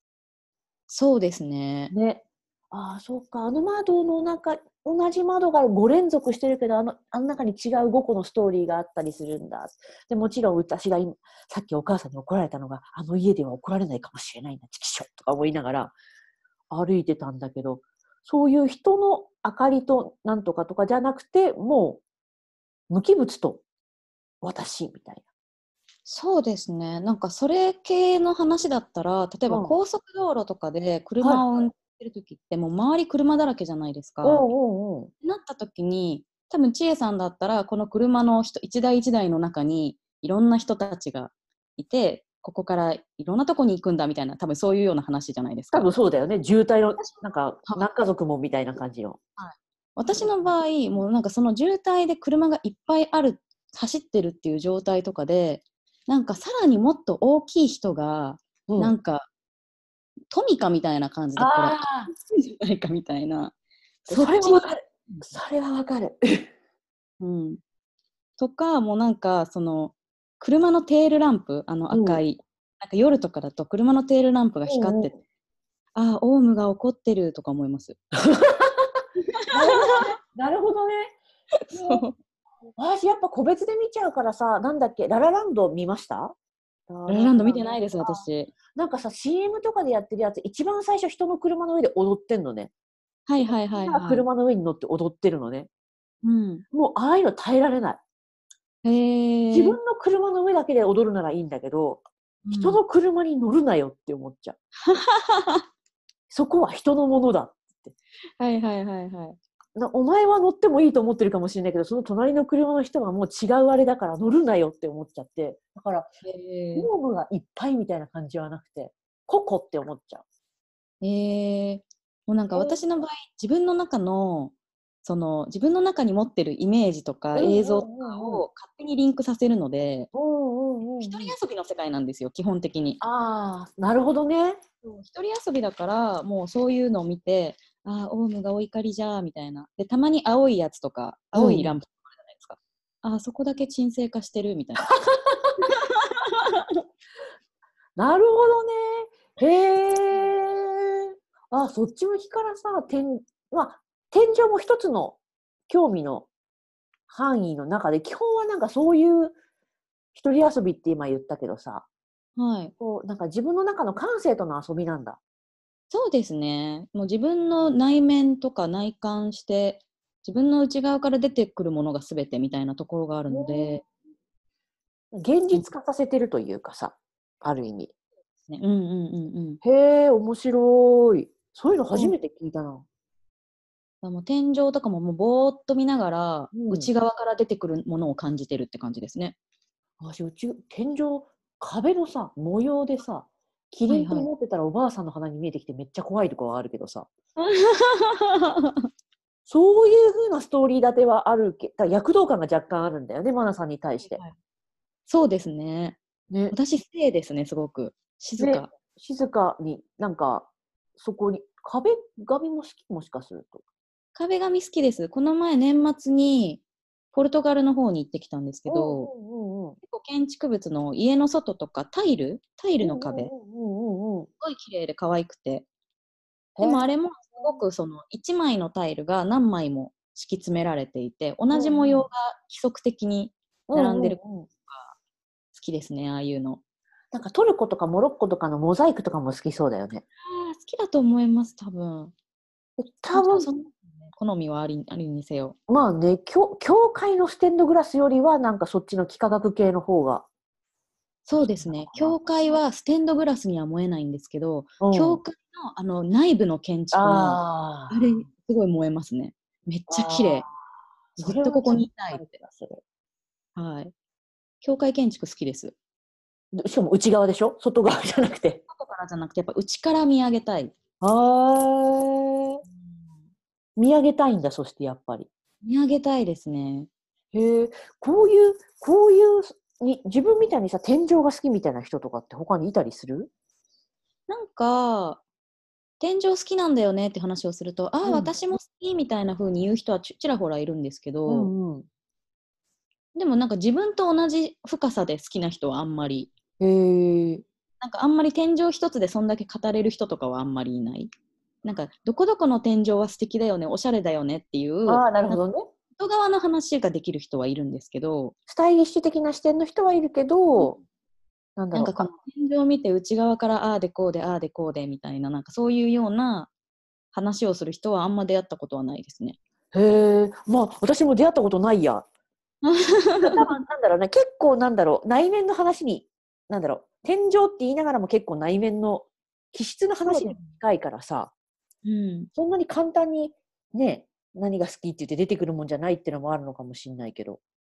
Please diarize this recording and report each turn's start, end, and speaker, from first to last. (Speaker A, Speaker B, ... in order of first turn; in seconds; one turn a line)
Speaker A: 0.9-1.9
Speaker B: 1.9-15.9
Speaker B: 16.7-22.0
Speaker B: 22.9-23.6
Speaker B: 24.4-25.2
Speaker A: 26.0-34.5
Speaker B: 29.5-29.8
Speaker B: 31.2-31.4
Speaker B: 34.2-35.1
Speaker A: 35.2-45.9
Speaker B: 45.7-49.2
Speaker A: 47.0-47.9
Speaker A: 49.4-59.3
Speaker B: 50.1-50.5
Speaker B: 58.7-59.0
Speaker A: 60.3-63.5
Speaker B: 61.4-62.1
Speaker A: 64.0-65.3
Speaker B: 64.1-66.5
Speaker A: 67.2-67.6
Speaker A: 68.4-75.2
Speaker B: 71.9-72.2
Speaker B: 74.7-75.1
Speaker A: 75.9-78.0
Speaker B: 78.2-78.9
Speaker A: 79.5-79.8
Speaker B: 79.5-81.2
Speaker A: 81.7-82.1
Speaker B: 81.7-82.0
Speaker B: 82.8-86.3
Speaker B: 86.9-92.7
Speaker A: 87.1-88.5
Speaker A: 93.3-94.2
Speaker B: 93.4-95.7
Speaker A: 96.2-96.6
Speaker B: 96.7-98.0
Speaker A: 98.8-99.8
Speaker B: 99.5-102.0
Speaker A: 102.5-102.8
Speaker B: 102.6-104.6
Speaker A: 104.9-105.6
Speaker B: 106.3-107.9
Speaker A: 108.4-109.4
Speaker B: 109.8-116.1
Speaker A: 116.2-116.9
Speaker B: 116.7-120.2
Speaker A: 121.0-130.1
Speaker B: 122.5-122.8
Speaker B: 127.3-128.4
Speaker B: 130.1-131.3
Speaker A: 130.8-133.0
Speaker B: 133.0-134.6
Speaker A: 134.8-144.9
Speaker B: 141.3-141.8
Speaker B: 145.2-145.5
Speaker A: 145.6-146.7
Speaker B: 147.9-156.3
Speaker B: 157.1-159.4
Speaker B: 160.1-161.9
Speaker A: 162.4-162.7
Speaker B: 162.8-165.2
Speaker A: 165.9-173.8
Speaker B: 173.3-173.8
Speaker B: 175.1-177.9
Speaker A: 178.5-179.6
Speaker B: 179.6-182.8
Speaker A: 184.0-189.3
Speaker B: 186.5-186.9
Speaker B: 190.0-197.1
Speaker A: 193.9-194.3
Speaker A: 197.4-198.7
Speaker B: 199.4-204.2
Speaker A: 204.0-204.3
Speaker A: 205.1-206.0
Speaker B: 206.3-206.6
Speaker A: 206.5-208.7
Speaker B: 208.4-213.6
Speaker A: 214.1-219.1
Speaker B: 218.7-219.8
Speaker A: 219.8-223.3
Speaker B: 222.8-224.3
Speaker A: 224.4-225.7
Speaker B: 226.6-226.8
Speaker A: 226.6-234.9
Speaker B: 231.5-232.1
Speaker B: 233.7-234.5
Speaker A: 235.5-236.6
Speaker B: 237.1-240.0
Speaker A: 240.2-242.1
Speaker B: 242.8-243.5
Speaker A: 243.1-245.6
Speaker B: 245.7-250.2
Speaker A: 251.2-260.5
Speaker B: 251.4-252.2
Speaker B: 254.8-255.2
Speaker B: 256.9-258.2
Speaker B: 259.9-260.5
Speaker A: 261.1-262.3
Speaker B: 261.2-262.8
Speaker A: 263.6-263.9
Speaker A: 264.6-265.7
Speaker B: 266.5-268.6
Speaker A: 268.7-270.7
Speaker B: 271.0-272.6
Speaker B: 273.8-275.3
Speaker A: 275.6-276.9
Speaker B: 277.3-283.3
Speaker A: 284.3-285.2
Speaker A: 286.0-291.5
Speaker B: 288.0-288.3
Speaker B: 291.3-291.9
Speaker A: 293.1-296.3
Speaker B: 296.6-297.4
Speaker A: 297.8-301.1
Speaker A: 301.6-305.4
Speaker B: 304.9-305.7
Speaker A: 305.9-308.3
Speaker B: 308.5-310.8
Speaker B: 311.6-312.1
Speaker A: 311.7-316.5
Speaker A: 317.1-319.4
Speaker B: 319.7-322.1
Speaker A: 322.6-323.5
Speaker B: 323.2-331.3
Speaker A: 330.1-330.5
Speaker A: 331.8-332.3
Speaker B: 332.3-337.4